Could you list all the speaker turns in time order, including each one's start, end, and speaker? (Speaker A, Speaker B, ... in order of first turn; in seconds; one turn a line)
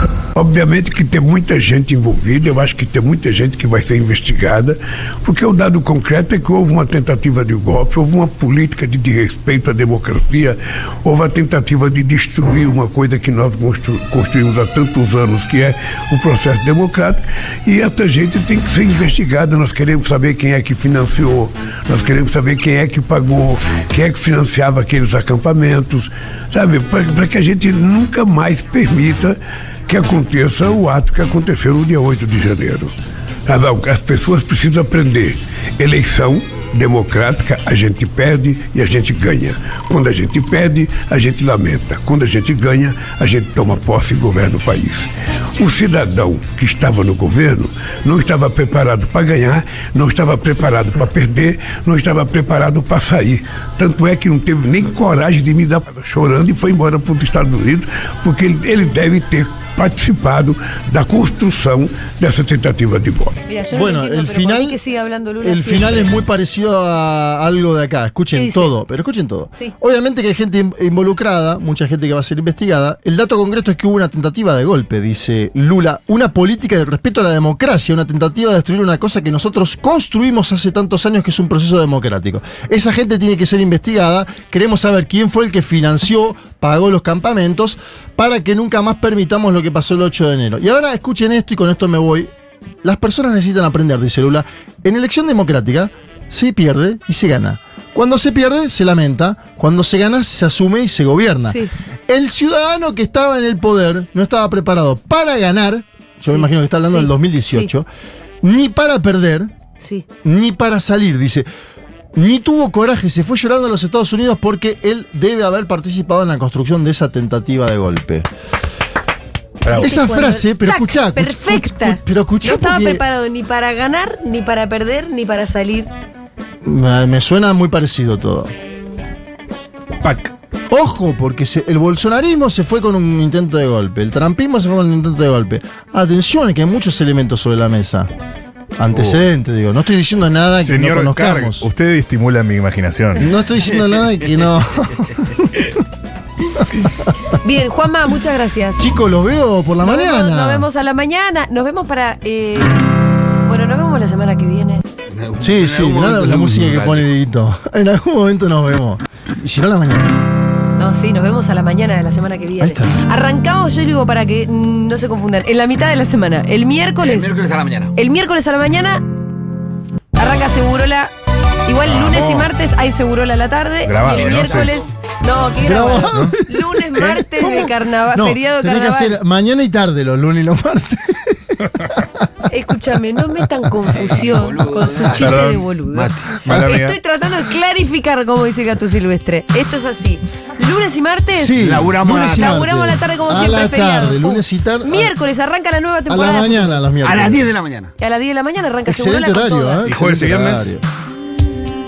Speaker A: 0.3-32.9
Speaker A: 33.5-63.4
Speaker B: 63.5-66.1
Speaker C: 63.7-64.8
Speaker C: 65.4-92.3
Speaker B: 68.3-68.7
Speaker C: 92.8-107.9
Speaker B: 101.5-101.7
Speaker B: 106.2-107.7
Speaker C: 108.4-109.5
Speaker B: 109.8-110.1
Speaker C: 110.2-111.5
Speaker C: 112.1-118.3
Speaker D: 119.6-119.9
Speaker C: 119.7-123.0
Speaker B: 119.8-125.9
Speaker C: 126.6-128.5
Speaker D: 130.0-130.3
Speaker C: 130.7-138.1
Speaker C: 138.8-141.7
Speaker D: 138.9-139.2
Speaker D: 140.6-143.3
Speaker C: 143.2-145.8
Speaker C: 146.6-147.1
Speaker B: 147.3-148.9
Speaker C: 148.8-150.7
Speaker B: 149.8-152.9
Speaker B: 153.4-154.8
Speaker E: 155.1-157.1
Speaker C: 155.4-160.2
Speaker B: 160.8-167.3
Speaker C: 162.6-163.0
Speaker E: 167.0-167.9
Speaker B: 167.9-169.1
Speaker B: 170.2-171.1
Speaker B: 171.7-179.2
Speaker D: 171.8-172.5
Speaker D: 173.8-174.7
Speaker E: 174.1-174.9
Speaker C: 175.6-182.5
Speaker D: 177.0-177.7
Speaker B: 182.5-196.9
Speaker E: 183.9-186.3
Speaker D: 185.0-185.7
Speaker D: 186.4-187.0
Speaker C: 191.3-195.1
Speaker E: 191.6-192.7
Speaker C: 196.1-197.5
Speaker E: 197.0-197.9
Speaker B: 198.0-199.8
Speaker C: 198.8-200.8
Speaker D: 199.8-200.7